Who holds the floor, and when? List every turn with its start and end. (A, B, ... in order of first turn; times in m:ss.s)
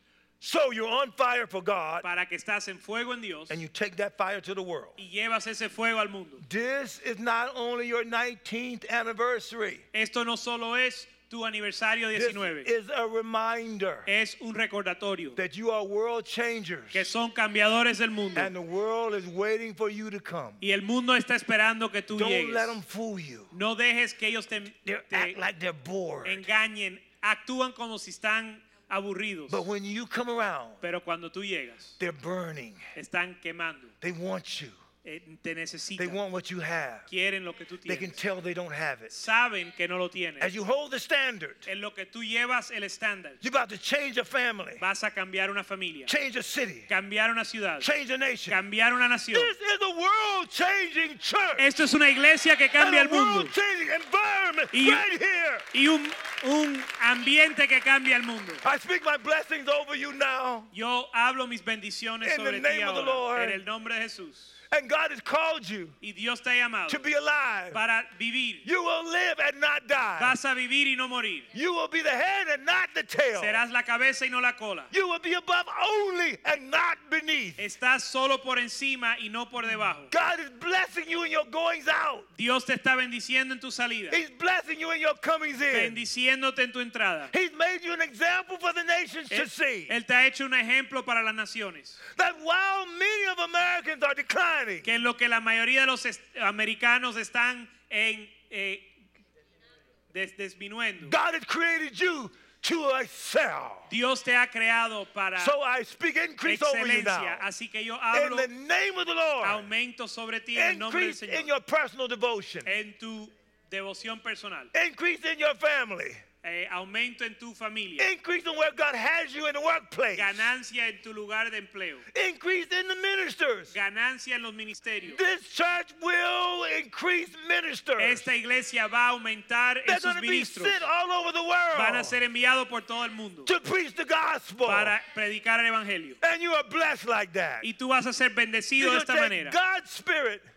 0:00.4-0:02.0 A
0:02.0-0:03.6 B
0:03.5-0:05.0 A
0:05.0-0:06.4 B
0:06.4-0:09.8 A
0:09.9-0:12.7 B
0:12.1-0:14.1 A
0:14.0-0:15.4 B
0:15.4-0:17.1 A
0:16.9-0:18.5 B
0:18.3-0:20.6 A
0:20.6-0:22.7 B
0:22.1-0:23.5 A
0:23.5-0:25.4 B
0:24.8-0:26.5 A
0:26.2-0:29.6 B
0:29.5-0:30.8 A
0:30.8-0:32.0 B
0:32.0-0:32.9 A
0:32.9-0:33.9 B
0:34.0-0:34.8 A
0:35.0-0:36.2 B
0:36.0-0:37.1 A
0:37.1-0:38.1 B
0:37.8-0:39.2 A
0:39.1-0:40.5 B
0:40.4-0:41.7 A
0:41.6-0:43.4 B
0:43.4-0:44.8 A
0:44.8-0:46.1 B
0:46.1-0:46.9 A
0:46.9-0:47.9 B
0:47.8-0:48.6 A
0:48.5-0:49.5 B
0:49.3-0:51.7 A
0:51.6-0:53.5 B
0:52.8-0:55.7 A
0:54.7-0:55.0 B
0:55.7-0:58.6 B
0:58.6-1:00.7 A
1:00.7-1:04.6 B
1:02.2-1:03.6 A
1:04.7-1:06.0 A
1:06.0-1:07.0 B
1:06.9-1:07.8 A
1:07.7-1:08.6 B
1:08.6-1:10.4 A
1:10.2-1:11.4 B
1:11.5-1:13.6 A
1:13.4-1:14.9 B
1:14.9-1:17.6 A
1:17.6-1:20.1 B
1:20.1-1:22.3 A
1:22.3-1:24.2 B
1:24.1-1:26.0 A
1:25.7-1:27.3 B
1:27.3-1:30.0 A
1:29.3-1:32.0 B
1:32.1-1:34.9 A
1:34.8-1:38.9 B
1:40.1-1:41.2 B
1:41.0-1:43.9 A
1:43.9-1:45.6 B
1:45.4-1:47.5 A
1:46.4-1:48.5 B
1:48.1-1:49.7 A
1:49.4-1:51.5 B
1:50.5-1:52.7 A
1:52.6-1:54.7 B
1:54.7-1:56.2 A
1:56.4-1:58.1 B
1:58.0-2:00.5 A
2:00.1-2:02.0 B
2:02.1-2:03.7 A
2:03.7-2:05.2 B
2:05.1-2:08.3 A
2:08.0-2:10.8 B
2:09.8-2:12.2 A
2:11.7-2:13.5 B
2:13.4-2:15.0 A
2:14.6-2:16.2 B
2:16.2-2:17.7 A
2:17.6-2:19.6 B
2:18.8-2:20.5 A